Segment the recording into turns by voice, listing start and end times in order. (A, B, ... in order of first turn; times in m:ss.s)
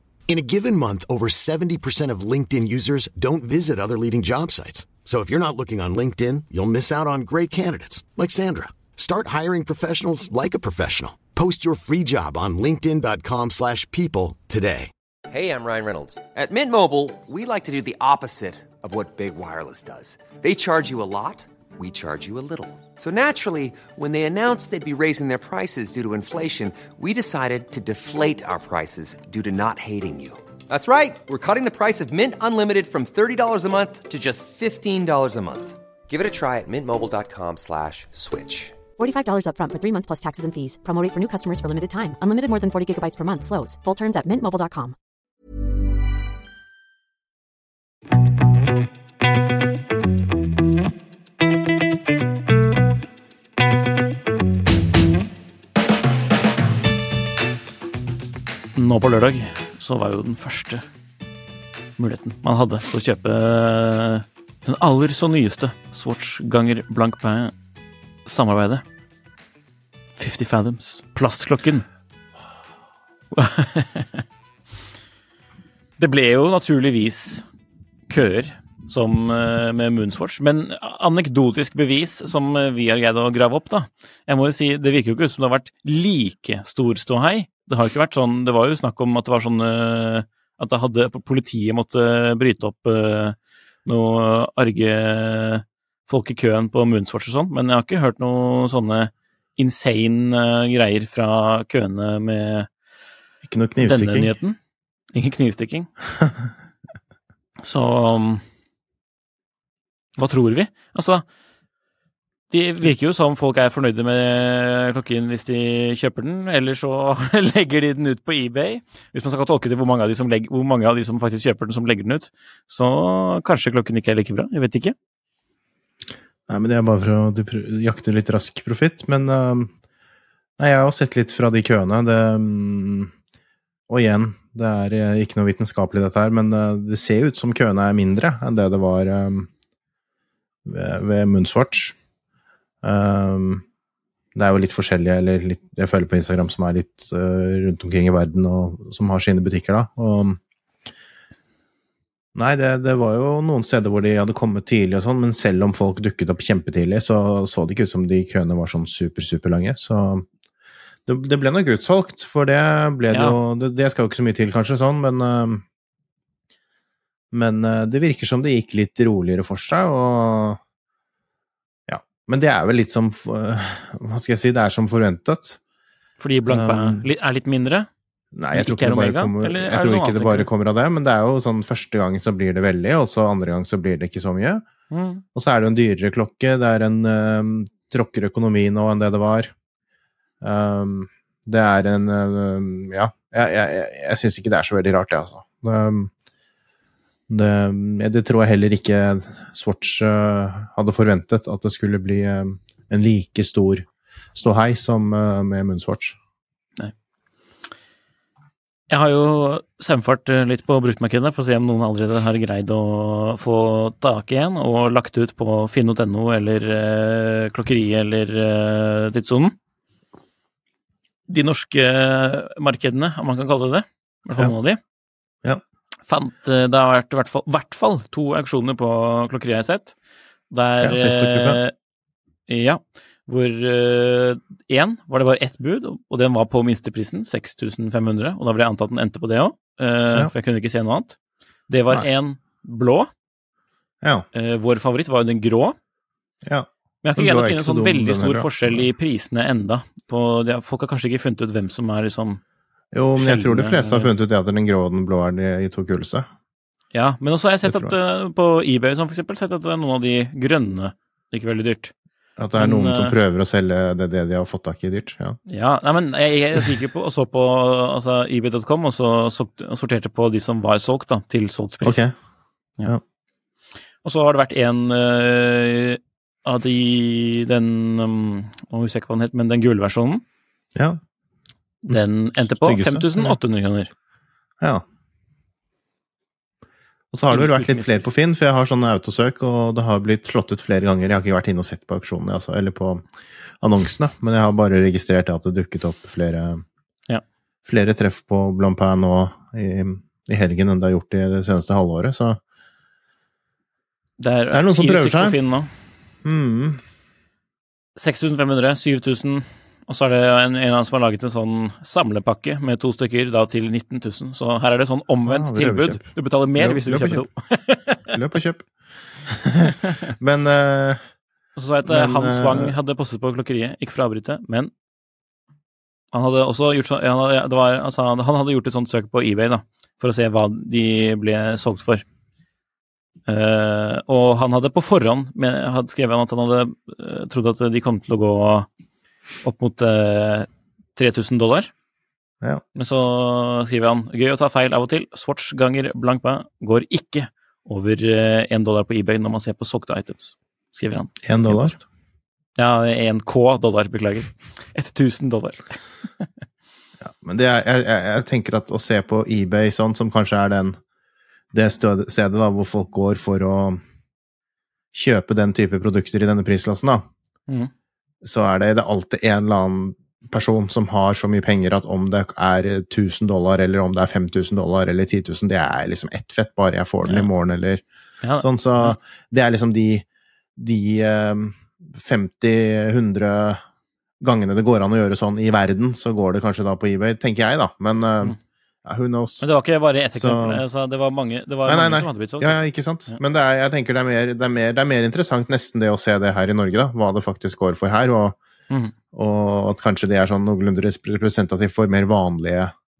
0:00.3-0:14.9 A
0:15.3-0:38.8 B
0:39.0-0:44.9 C
0:58.7-1:00.8 D
1:02.0-1:07.5 D
1:08.2-1:08.8 D
1:10.2-1:11.8 D
1:13.3-1:14.2 D
1:16.0-1:17.4 D
1:18.1-1:42.7 D
1:43.4-1:44.3 E
1:43.8-1:44.6 D
1:45.1-1:45.9 D
1:46.2-1:46.5 E
1:47.6-1:48.4 D
1:50.2-1:51.2 D
1:52.5-2:04.9 D
2:06.5-2:09.7 E
2:10.6-2:13.1 E
2:13.9-2:19.5 E
2:20.6-2:21.9 E
2:22.8-2:23.6 E
2:24.3-2:30.4 E
2:32.3-2:40.2 E
2:41.1-2:45.6 E
2:43.1-2:43.4 D
2:47.3-2:50.6 E
2:51.9-2:55.6 E
2:56.2-2:57.9 D
2:56.5-2:57.1 E
2:58.3-3:04.6 E
2:58.5-3:00.5 D
3:04.9-3:05.2 D
3:05.3-3:09.5 E
3:10.4-3:16.1 E
3:17.3-3:26.2 E
3:28.9-3:39.5 D
3:41.3-3:44.8 D
3:46.1-3:49.9 D
3:50.5-3:51.7 D
3:50.8-3:51.6 E
3:52.5-4:01.2 D
4:01.7-4:03.1 D
4:04.0-4:04.3 E
4:04.3-4:05.7 D
4:06.4-4:08.9 E
4:07.0-4:12.4 D
4:12.9-4:16.3 E
4:13.2-4:14.1 D
4:16.9-4:21.9 D
4:17.6-4:17.9 E
4:22.4-4:25.4 E
4:22.6-4:23.2 D
4:25.5-4:32.0 D
4:31.8-4:32.1 E
4:34.0-4:40.2 D
4:40.7-4:41.0 E
4:41.8-4:43.9 D
4:41.9-4:43.4 E
4:47.1-4:53.0 E
4:47.3-4:48.1 D
4:53.6-4:56.6 E
4:57.6-5:02.4 E
5:04.2-5:05.7 D
5:04.5-5:05.4 E
5:06.2-5:06.8 E
5:08.0-5:18.1 D
5:15.3-5:17.2 E
5:18.1-5:21.0 E
5:19.7-5:20.1 D
5:21.6-5:24.7 D
5:21.8-5:22.7 E
5:26.1-5:32.0 D
5:33.3-5:38.7 D
5:39.4-5:41.7 D
5:42.7-5:51.8 D
5:51.2-5:51.8 E
5:52.6-5:56.3 D
5:57.0-6:00.8 E
6:01.5-6:03.8 E
6:04.9-6:07.0 E
6:08.2-6:17.8 E
6:18.2-6:19.0 D
6:18.4-6:20.0 E
6:20.6-6:23.6 E
6:24.2-6:29.5 E
6:29.4-6:33.2 D
6:30.1-6:30.6 E
6:31.6-6:38.4 E
6:39.1-6:42.7 E